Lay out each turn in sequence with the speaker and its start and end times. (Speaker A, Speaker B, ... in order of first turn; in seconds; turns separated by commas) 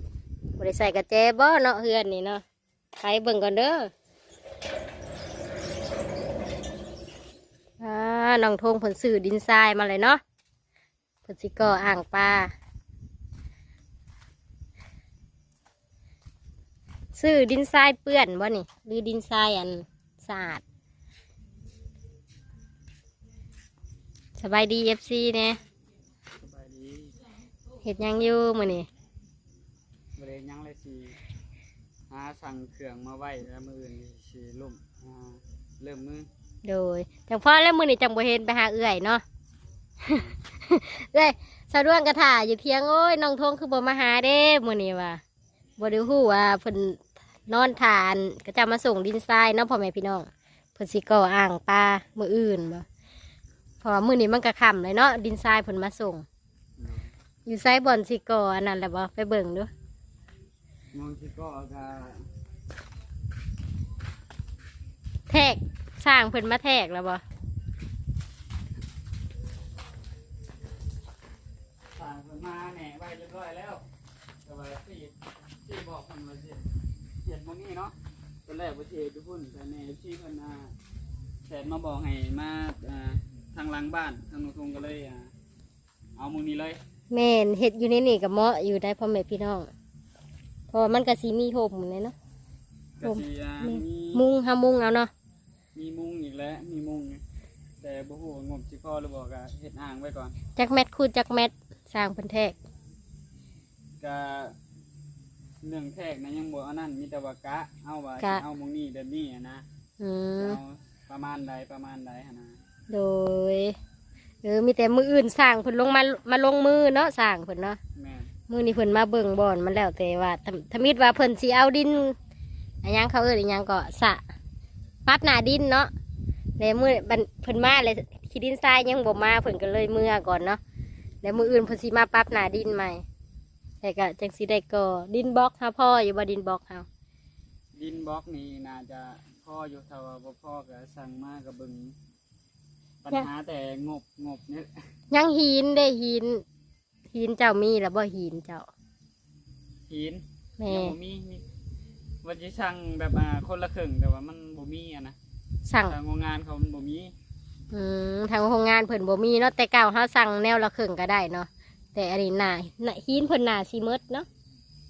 Speaker A: 0.6-2.4, Speaker A: 3.0-3.9, Speaker A: 7.8-10.2, Speaker A: 11.2-12.5, Speaker A: 17.1-20.6, Speaker A: 24.4-25.6, Speaker B: 26.4-27.2, Speaker A: 27.8-28.9, Speaker B: 30.1-31.2, Speaker B: 32.1-36.3, Speaker A: 36.6-39.2, Speaker A: 40.0-45.2, Speaker A: 45.8-52.9, Speaker A: 53.8-56.2, Speaker B: 56.8-57.1, Speaker A: 57.5-59.7, Speaker B: 60.9-62.3, Speaker A: 65.3-67.2, Speaker B: 71.9-73.8, Speaker B: 74.4-76.7, Speaker B: 77.2-77.9, Speaker B: 78.5-80.7, Speaker B: 81.5-85.3, Speaker B: 86.2-86.8, Speaker A: 87.1-89.7, Speaker A: 90.7-92.1, Speaker B: 93.0-94.2, Speaker A: 93.0-95.1, Speaker B: 95.7-97.2, Speaker B: 97.8-100.3, Speaker A: 100.5-102.6, Speaker B: 104.0-104.5, Speaker B: 105.6-109.6, Speaker A: 110.0-110.6, Speaker B: 110.4-112.6, Speaker A: 112.9-113.8, Speaker A: 114.4-117.8, Speaker B: 118.0-118.3, Speaker A: 118.5-122.2, Speaker A: 122.8-124.2, Speaker A: 125.0-125.9, Speaker A: 126.6-130.6, Speaker A: 131.2-133.0, Speaker A: 133.8-136.9, Speaker B: 137.7-141.9, Speaker B: 143.0-144.7, Speaker A: 145.1-146.4, Speaker A: 147.1-148.7, Speaker B: 149.9-151.4, Speaker A: 150.6-150.9, Speaker B: 152.2-155.2, Speaker A: 155.7-155.9, Speaker B: 155.8-157.1, Speaker A: 157.7-164.3